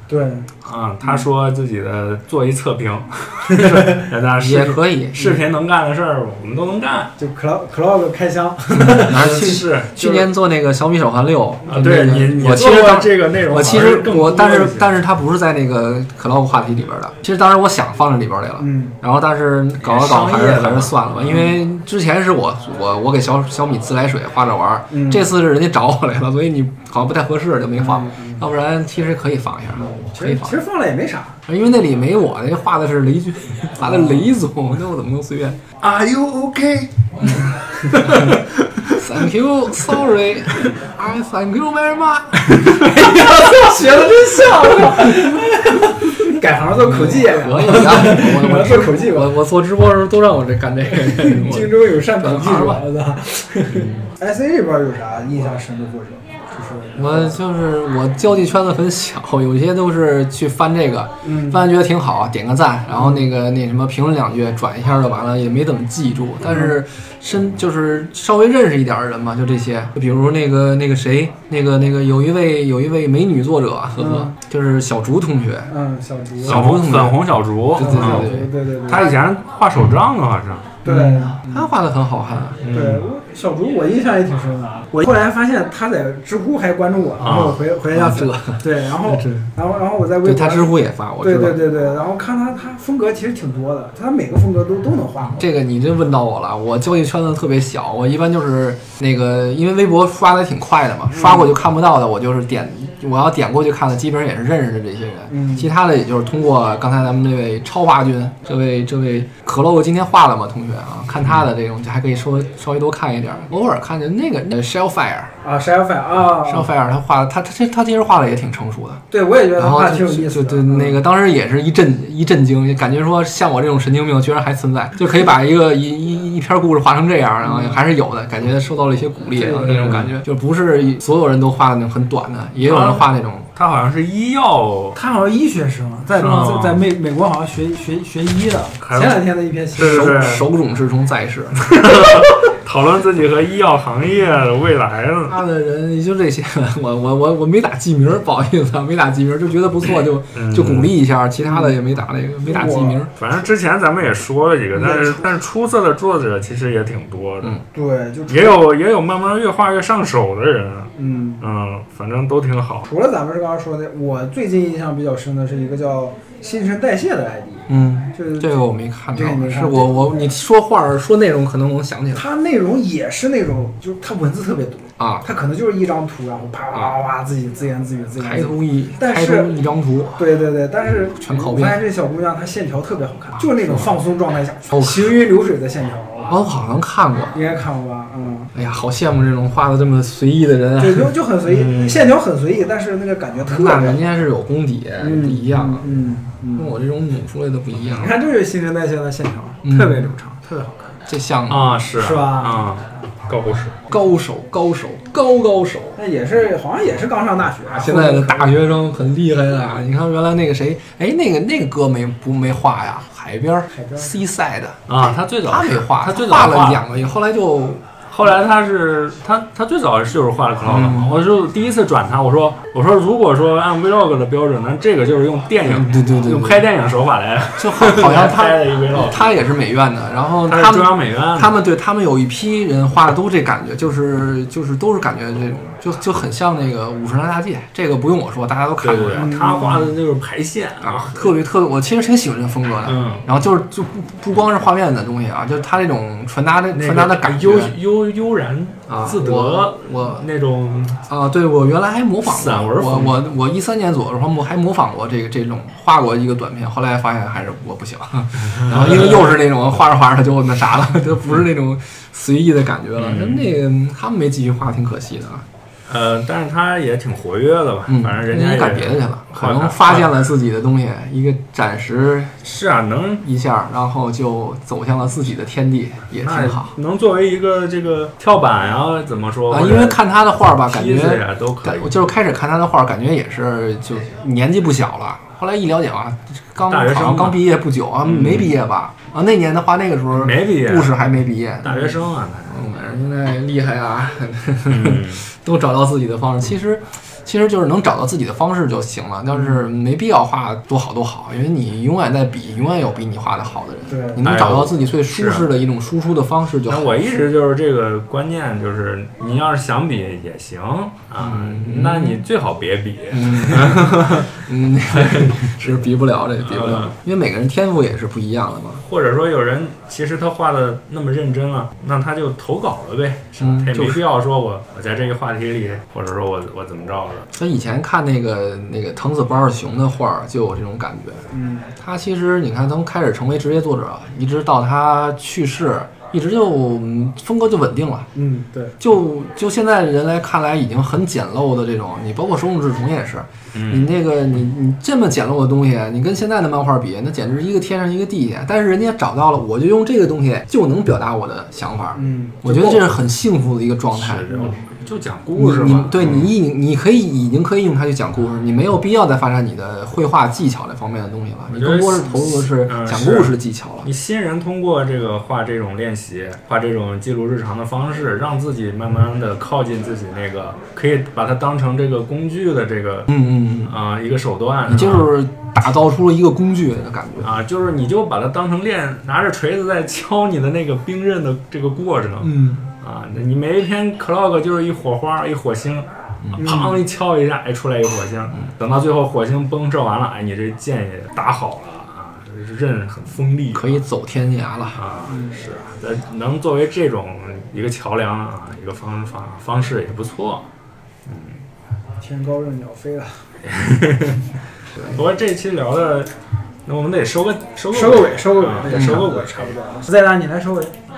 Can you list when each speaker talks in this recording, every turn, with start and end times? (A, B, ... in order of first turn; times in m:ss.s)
0:00.1-0:00.5 A
0:00.6-0:07.1 B
0:03.6-0:03.8 A
0:04.4-0:05.4 C
0:07.2-0:10.3 A
0:08.7-0:30.6 C
0:08.8-0:10.0 B
0:11.7-0:14.9 B
0:18.6-0:19.0 A
0:19.8-0:21.1 B
0:21.3-0:21.5 A
0:24.9-0:25.3 A
0:27.8-0:28.4 A
0:29.8-0:31.4 A
0:31.5-0:35.6 C
0:33.8-0:34.3 A
0:35.8-0:37.1 B
0:37.9-0:42.8 C
0:38.1-0:38.9 B
0:42.6-0:49.3 A
0:46.8-0:52.8 C
0:50.9-0:57.4 A
0:53.7-0:54.0 B
0:56.9-1:15.7 C
1:01.2-1:01.6 A
1:02.9-1:03.3 A
1:06.5-1:06.8 A
1:14.0-1:14.4 A
1:15.7-1:16.7 A
1:16.4-1:18.5 C
1:16.4-1:18.3 B
1:17.8-1:19.2 A
1:18.9-1:20.8 B
1:20.8-1:21.7 A
1:20.8-1:22.7 C
1:22.6-1:23.1 B
1:22.7-1:35.4 A
1:27.2-1:27.6 B
1:27.9-1:29.4 C
1:30.2-1:31.6 C
1:35.3-1:55.3 C
1:41.1-1:41.6 A
1:45.3-1:45.7 A
1:55.4-1:56.7 A
1:56.4-1:59.0 C
1:59.1-2:01.0 A
1:59.6-2:13.5 C
2:07.4-2:07.8 A
2:09.3-2:10.1 A
2:09.7-2:10.0 B
2:12.6-2:15.0 B
2:14.9-2:20.3 A
2:16.2-2:16.8 B
2:18.8-2:20.4 B
2:19.8-2:21.7 C
2:21.6-2:25.4 B
2:25.3-2:33.1 C
2:30.3-2:31.0 B
2:31.4-2:31.8 A
2:32.4-2:33.0 A
2:33.2-2:37.6 B
2:34.7-2:35.2 A
2:37.7-2:38.6 A
2:38.3-2:42.9 B
2:41.0-2:41.4 A
2:42.9-2:48.6 A
2:47.7-2:52.3 C
2:49.1-2:50.3 A
2:52.1-2:59.5 A
2:55.0-2:55.3 C
2:56.7-2:57.0 C
2:58.2-3:00.3 C
3:00.2-3:06.4 A
3:01.1-3:01.8 C
3:03.4-3:04.0 C
3:04.7-3:05.1 C
3:06.3-3:07.4 C
3:07.3-3:08.5 A
3:08.6-3:11.1 C
3:10.8-3:14.0 A
3:11.4-3:12.1 B
3:13.4-3:15.9 C
3:15.0-3:16.8 A
3:16.6-3:18.1 C
3:17.9-3:21.0 A
3:19.6-3:20.1 C
3:21.0-3:21.7 C
3:21.5-3:23.8 B
3:22.0-3:22.7 A
3:23.9-3:26.0 C
3:26.0-3:28.6 A
3:27.7-3:34.8 C
3:33.7-3:34.1 A
3:34.9-3:36.8 B
3:35.4-3:37.8 C
3:38.1-3:49.3 B
3:40.6-3:41.2 C
3:45.6-3:46.6 C
3:47.6-3:59.3 C
3:50.5-3:51.6 B
3:58.8-4:01.4 B
3:59.1-3:59.9 A
4:00.8-4:07.7 C
4:02.9-4:03.2 B
4:06.7-4:11.0 B
4:08.9-4:10.3 C
4:11.1-4:25.4 C
4:12.3-4:13.2 B
4:18.4-4:19.4 B
4:23.0-4:23.6 B
4:25.9-4:30.3 B
4:27.9-4:32.4 C
4:32.4-4:33.3 B
4:33.2-4:36.7 C
4:36.2-4:40.0 B
4:39.5-4:51.8 C
4:40.6-4:42.0 B
4:46.7-4:47.4 B
4:48.0-4:48.5 B
4:50.1-4:51.0 B
4:51.6-4:52.5 B
4:52.5-5:06.9 C
4:54.7-4:55.2 B
4:59.3-4:59.6 A
5:03.9-5:04.2 A
5:04.2-5:05.6 B
5:06.7-5:15.8 B
5:11.2-5:12.2 C
5:13.1-5:18.8 C
5:16.4-5:16.9 B
5:18.9-5:27.3 B
5:23.4-5:24.0 C
5:27.3-5:31.2 C
5:31.3-5:31.7 A
5:31.8-5:38.1 C
5:38.1-5:38.8 A
5:38.8-5:54.3 C
5:43.5-5:43.9 B
5:51.9-5:52.8 A
5:53.9-5:56.4 B
5:55.4-6:03.9 C
6:01.5-6:13.1 B
6:13.1-6:13.8 C
6:13.6-6:15.1 B
6:14.7-6:17.3 C
6:17.2-6:33.8 B
6:22.2-6:22.6 C
6:26.2-6:26.5 C
6:26.4-6:26.8 A
6:33.5-6:34.8 C
6:34.8-6:40.4 B
6:35.1-6:35.4 A
6:41.1-6:41.4 B
6:42.0-6:43.2 A
6:43.4-6:46.1 B
6:46.6-6:49.6 B
6:47.7-6:50.8 A
6:48.7-6:49.0 C